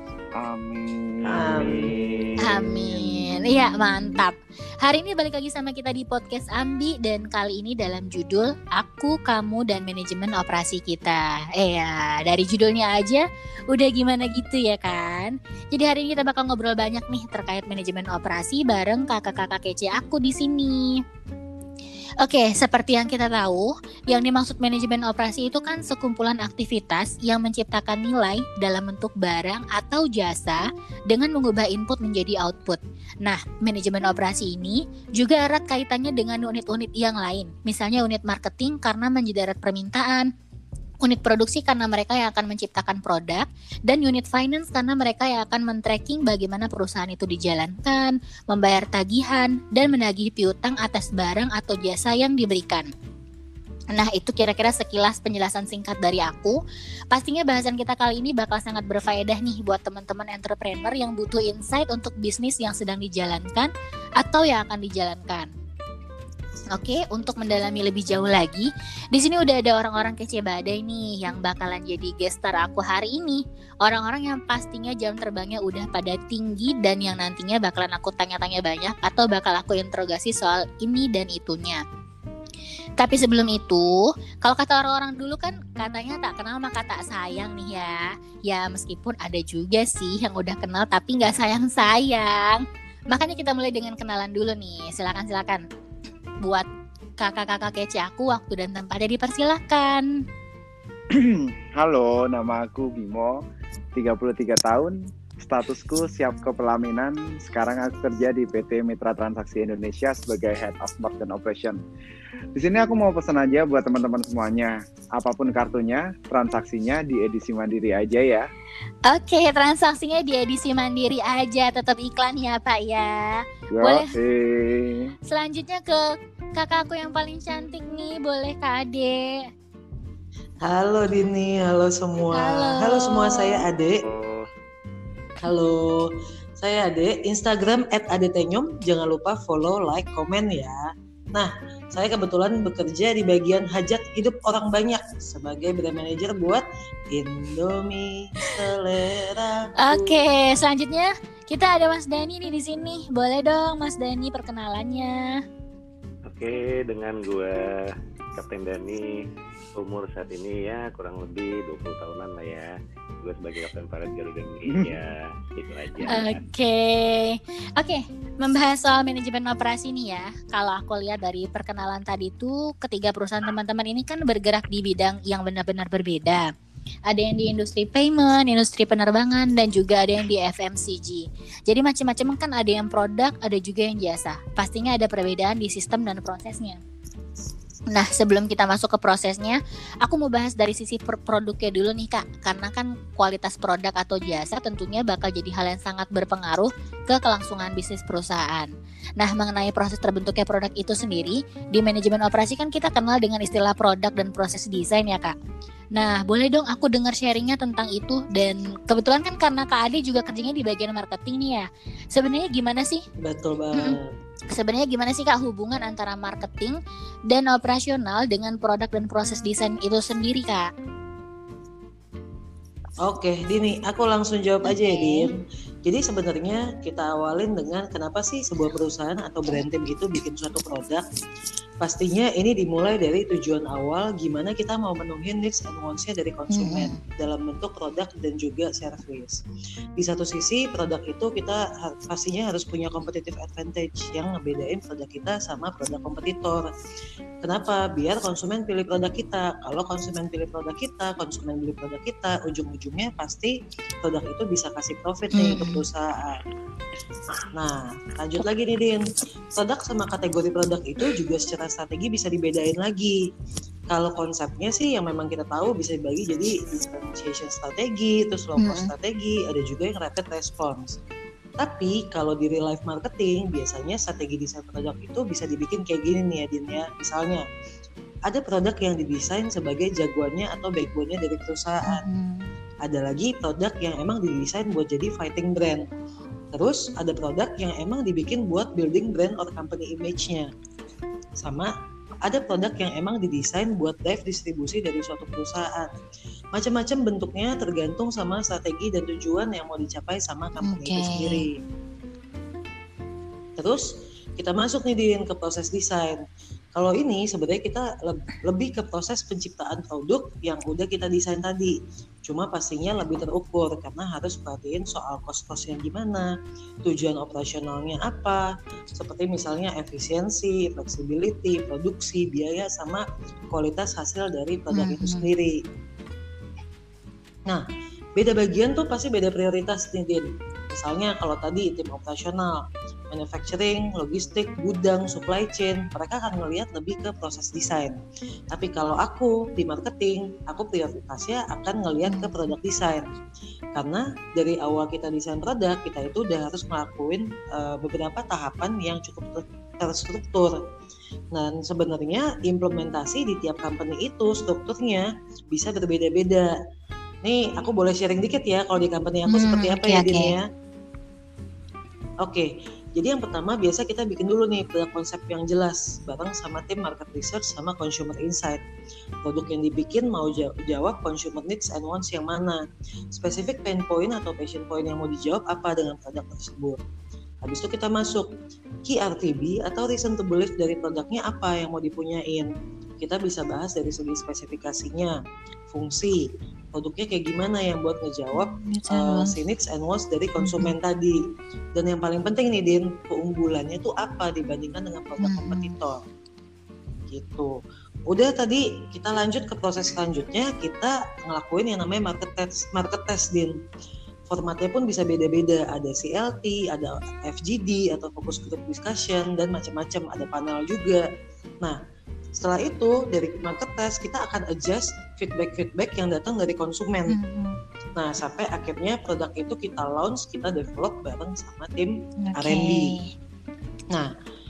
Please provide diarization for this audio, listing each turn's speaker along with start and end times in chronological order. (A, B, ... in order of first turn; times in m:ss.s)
0:00.4-0:04.2 A
0:01.2-0:02.4 B
0:01.3-0:01.8 C
0:02.4-0:21.0 D
0:22.2-0:40.3 D
0:41.0-0:52.9 D
0:53.9-0:56.6 D
0:57.1-1:05.5 D
1:06.7-1:21.8 D
1:23.0-1:35.6 D
1:37.2-1:40.1 D
1:41.2-1:43.3 A
1:43.9-1:51.8 A
1:52.6-1:58.5 A
1:59.1-2:04.0 D
2:03.7-2:05.1 A
2:05.3-2:06.0 D
2:06.6-2:09.4 D
2:10.6-2:14.0 C
2:12.3-2:13.6 D
2:14.0-2:14.5 B
2:15.4-2:16.1 C
2:16.6-2:20.8 C
2:21.3-2:30.2 C
2:29.8-2:35.4 D
2:36.3-2:39.1 B
2:39.8-2:46.4 B
2:46.1-2:56.5 D
2:57.1-3:06.8 D
3:07.9-3:25.3 D
3:25.9-3:33.0 D
3:33.2-3:34.1 C
3:34.5-3:40.7 D
3:43.0-3:51.0 C
3:44.7-3:45.3 D
3:51.8-3:59.4 C
3:56.5-3:57.0 D
4:00.0-4:06.6 C
4:07.4-4:16.4 C
4:15.3-4:15.8 D
4:17.6-4:23.2 C
4:23.9-4:31.0 C
4:28.6-4:28.9 D
4:31.6-4:37.4 C
4:38.2-4:42.1 C
4:41.9-4:42.5 D
4:42.8-4:45.8 C
4:46.5-4:50.5 C
4:51.4-4:51.7 C
4:52.2-4:55.9 C
4:56.5-5:01.6 C
5:00.6-5:01.4 D
5:03.6-5:03.9 C
5:04.4-5:06.2 C
5:06.8-5:11.7 C
5:12.2-5:16.3 C
5:16.8-5:25.6 C
5:24.7-5:25.3 D
5:28.2-5:32.6 C
5:33.1-5:38.0 C
5:38.5-5:43.0 C
5:42.1-5:42.4 D
5:43.8-5:50.5 C
5:51.3-5:56.5 C
5:57.2-6:00.4 C
5:59.3-6:00.4 D
6:02.2-6:08.6 C
6:09.2-6:16.8 C
6:17.4-6:18.3 C
6:18.9-6:22.5 C
6:23.0-6:25.1 C
6:25.7-6:26.2 C
6:26.7-6:31.2 C
6:28.3-6:29.4 D
6:30.4-6:30.7 D
6:31.8-6:36.0 C
6:35.2-6:35.8 D
6:37.1-6:37.5 C
6:38.1-6:43.5 C
6:44.3-6:51.0 C
6:52.4-6:57.2 C
6:57.1-6:57.6 D
6:58.0-7:03.0 C
7:02.2-7:03.1 D